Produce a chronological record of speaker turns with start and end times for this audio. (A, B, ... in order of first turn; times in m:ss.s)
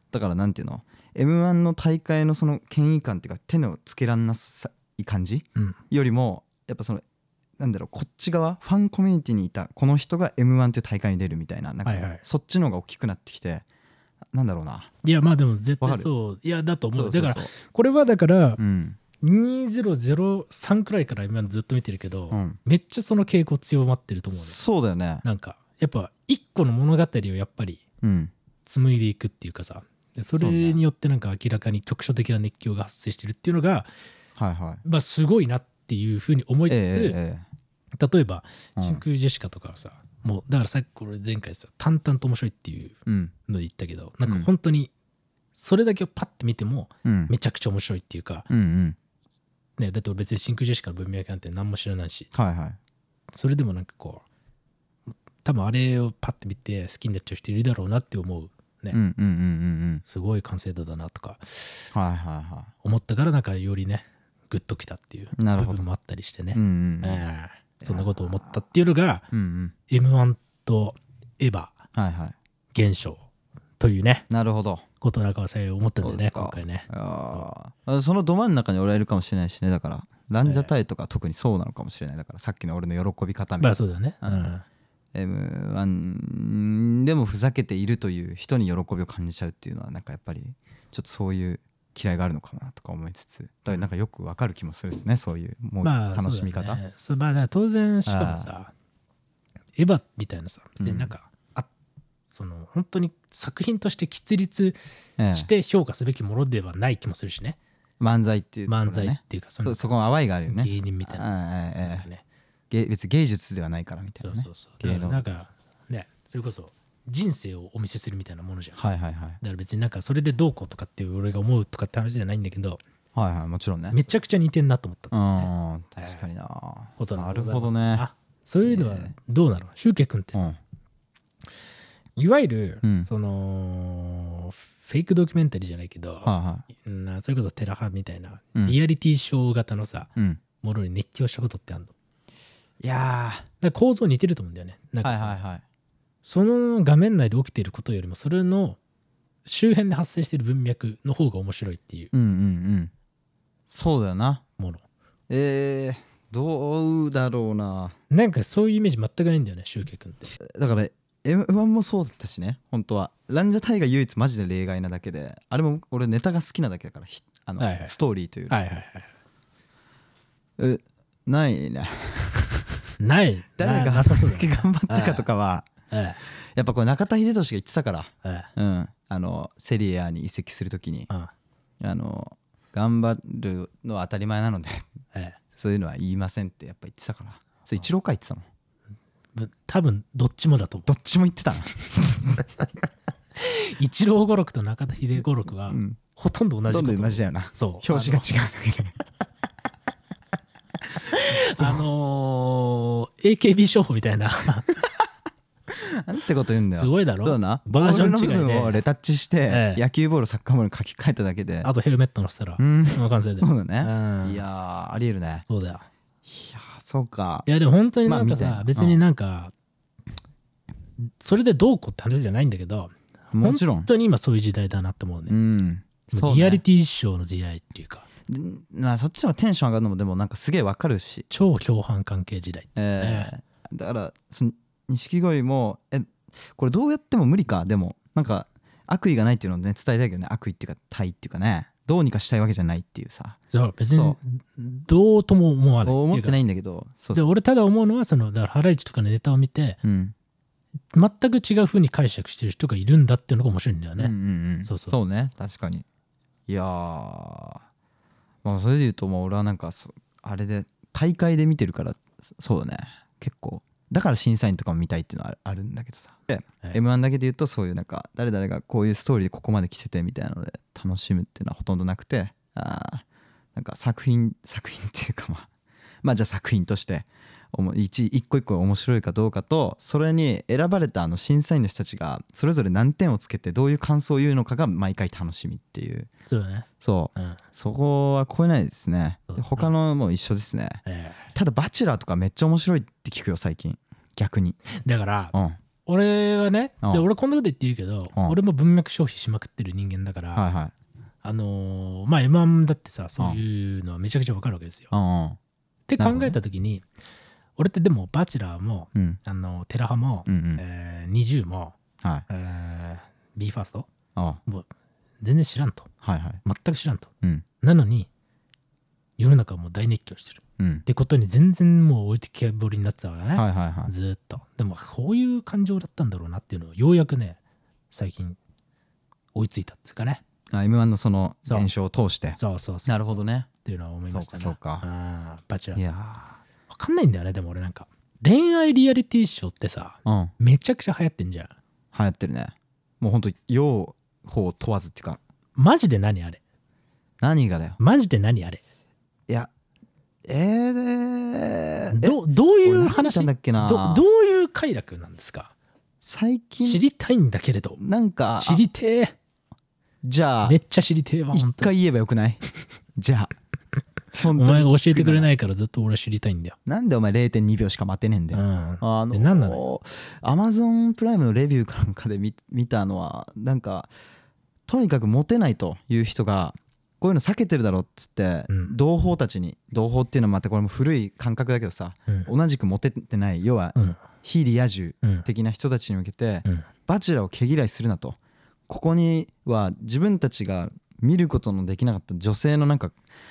0:00.1-0:07.0 A
0:07.6-0:13.6 A
0:11.8-0:12.2 B
0:14.3-0:14.9 A
0:15.0-0:18.6 B
0:15.8-0:16.1 A
0:16.9-0:17.5 A
0:18.6-0:19.0 A
0:19.2-0:24.5 B
0:22.3-0:22.6 A
0:24.4-0:25.2 A
0:25.2-0:27.8 B
0:28.0-0:28.3 A
0:28.6-0:33.9 B
0:30.3-0:30.8 A
0:34.4-0:34.8 A
0:34.8-0:37.2 B
0:36.7-0:37.4 A
0:38.0-0:44.9 B
0:38.8-0:39.0 A
0:43.0-0:43.3 A
0:45.5-0:48.5 B
0:47.0-0:47.3 A
0:48.5-0:49.0 A
0:49.8-0:52.3 B
0:52.3-0:52.8 A
0:53.3-0:54.2 B
0:55.4-0:59.0 B
0:58.9-1:00.0 A
1:00.0-1:01.9 B
1:01.9-1:02.7 A
1:02.8-1:09.3 B
1:05.4-1:05.8 A
1:06.5-1:07.2 A
1:07.8-1:08.5 A
1:09.3-1:09.7 A
1:09.9-1:11.8 B
1:11.9-1:12.4 A
1:12.7-1:13.2 B
1:13.8-1:14.3 B
1:14.3-1:14.8 A
1:15.0-1:17.4 B
1:16.0-1:24.5 A
1:20.4-1:20.7 B
1:23.6-1:24.6 B
1:25.1-1:36.8 A
1:35.8-1:38.7 B
1:38.0-1:38.5 A
1:39.8-1:41.7 B
1:40.8-1:41.1 A
1:42.3-1:44.8 B
1:45.2-1:45.5 A
1:45.3-1:47.6 B
1:48.0-1:52.1 A
1:48.7-1:49.9 B
1:50.5-1:51.3 B
1:51.8-1:52.2 B
1:52.7-1:55.3 A
1:54.2-1:58.8 B
1:58.8-1:59.4 A
1:59.4-2:02.8 B
2:03.1-2:04.0 A
2:03.9-2:06.2 B
2:05.1-2:08.0 A
2:07.0-2:10.6 B
2:08.6-2:09.1 A
2:12.2-2:21.9 B
2:16.2-2:16.6 A
2:20.2-2:20.4 A
2:22.8-2:23.5 A
2:23.6-2:25.4 B
2:25.0-2:25.6 A
2:26.2-2:28.8 B
2:29.4-2:32.1 B
2:32.1-2:32.9 A
2:33.7-2:34.4 A
2:34.6-2:34.8 B
2:35.3-2:38.0 A
2:38.1-2:40.3 B
2:40.4-2:48.6 A
2:47.6-2:47.9 B
2:48.5-2:49.1 B
2:50.6-2:52.8 A
2:53.0-2:55.2 B
2:53.6-2:55.7 A
2:55.9-2:56.2 B
2:56.2-3:01.1 A
2:58.2-2:58.5 B
3:01.8-3:04.9 A
3:05.1-3:05.4 B
3:05.5-3:08.4 A
3:09.3-3:10.9 B
3:10.9-3:12.5 A
3:13.4-3:18.3 B
3:15.7-3:16.0 A
3:16.7-3:19.0 A
3:21.0-3:24.8 B
3:25.7-3:31.7 A
3:26.7-3:28.8 B
3:29.5-3:29.8 B
3:31.6-3:34.4 B
3:32.6-3:35.4 A
3:35.5-3:35.9 B
3:36.2-3:37.5 A
3:37.4-3:39.5 B
3:38.0-3:39.0 A
3:41.0-3:45.3 B
3:43.3-3:43.9 A
3:45.3-3:46.6 A
3:46.1-3:48.1 B
3:48.3-3:51.3 A
3:51.3-3:53.3 B
3:52.8-4:03.4 A
4:03.5-4:06.4 B
4:05.8-4:07.2 A
4:07.1-4:09.8 B
4:09.8-4:10.1 A
4:10.9-4:14.1 B
4:14.0-4:15.8 A
4:14.6-4:15.0 B
4:16.5-4:17.6 A
4:18.4-4:35.5 A
4:36.0-4:46.1 A
4:46.3-4:47.4 B
4:46.8-4:50.8 A
4:49.3-4:49.7 B
4:50.8-4:51.2 B
4:51.3-4:54.6 A
4:54.7-4:55.3 B
4:55.3-4:55.6 A
4:55.8-5:00.4 B
5:00.3-5:00.7 A
5:01.2-5:04.9 B
5:04.9-5:05.4 A
5:05.9-5:06.8 B
5:06.0-5:06.4 A
5:07.6-5:11.8 B
5:10.2-5:10.6 A
5:12.3-5:13.9 B
5:15.2-5:15.9 B
5:16.0-5:16.4 A
5:16.4-5:18.1 B
5:19.2-5:27.4 B
5:20.6-5:20.8 A
5:23.3-5:23.9 A
5:27.9-5:28.4 B
5:29.3-5:30.2 B
5:30.5-5:33.5 A
5:32.4-5:35.8 B
5:34.1-5:34.8 A
5:35.7-5:36.4 A
5:36.7-5:41.5 B
5:40.0-5:40.3 A
5:41.9-5:45.2 A
5:45.6-5:46.4 B
5:47.2-5:47.8 A
5:47.8-5:48.6 B
5:50.2-5:54.0 A
5:51.9-5:55.5 B
5:56.0-5:56.8 A
5:56.6-5:57.8 B
5:57.8-5:58.6 A
5:58.4-5:59.1 B
6:00.0-6:00.6 A
6:00.4-6:01.7 B
6:01.3-6:02.4 A
6:03.0-6:03.3 A
6:04.1-6:05.3 A
6:04.2-6:06.6 B
6:06.6-6:13.9 A
6:08.3-6:09.6 B
6:14.7-6:33.0 A
6:18.5-6:18.7 B
6:23.7-6:24.0 B